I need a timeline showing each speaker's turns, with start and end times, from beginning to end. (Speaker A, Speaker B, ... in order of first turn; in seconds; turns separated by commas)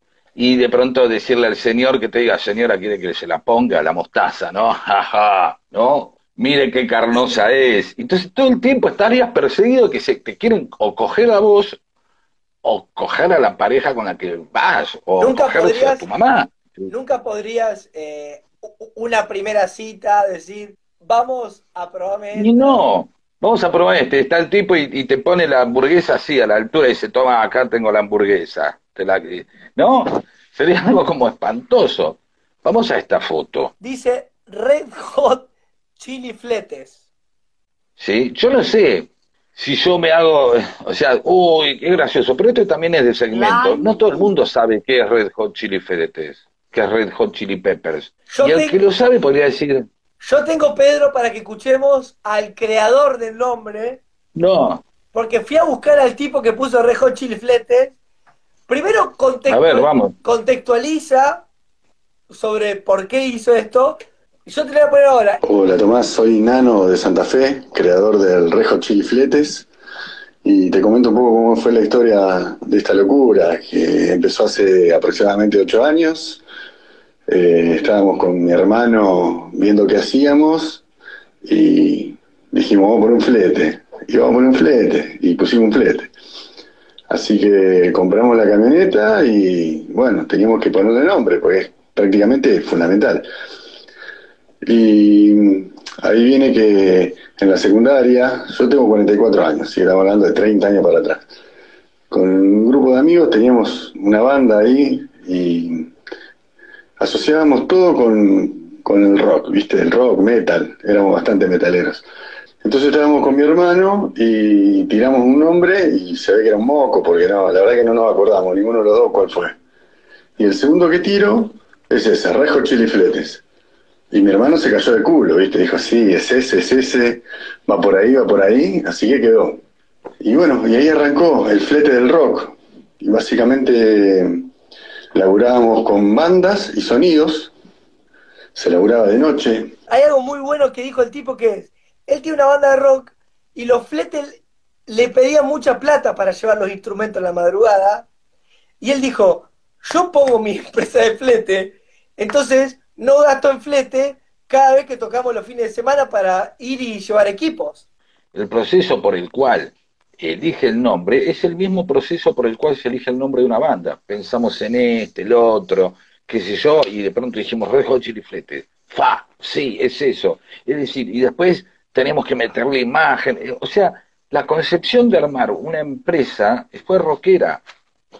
Speaker A: 0.3-11.8, Speaker A: 12.6-16.9, Speaker B: 15.2-16.1, Speaker B: 16.9-22.8, Speaker A: 22.3-33.7, Speaker B: 33.8-37.0, Speaker A: 38.0-49.9, Speaker B: 43.3-44.3, Speaker B: 48.3-48.8, Speaker B: 50.2-54.0, Speaker A: 54.4-54.8, Speaker B: 55.1-58.0, Speaker B: 58.7-61.5, Speaker A: 59.5-60.1, Speaker B: 62.3-65.4, Speaker C: 65.4-69.7, Speaker C: 70.4-76.4, Speaker C: 77.3-80.8, Speaker C: 81.4-86.1, Speaker C: 87.1-93.3, Speaker C: 94.6-101.3, Speaker C: 102.1-105.9, Speaker C: 107.0-112.0, Speaker C: 112.6-119.5, Speaker C: 120.4-123.4, Speaker C: 124.1-129.6, Speaker C: 130.2-134.5, Speaker C: 135.1-137.5, Speaker C: 138.5-139.7, Speaker B: 139.9-148.1, Speaker B: 148.8-157.8, Speaker A: 158.3-177.6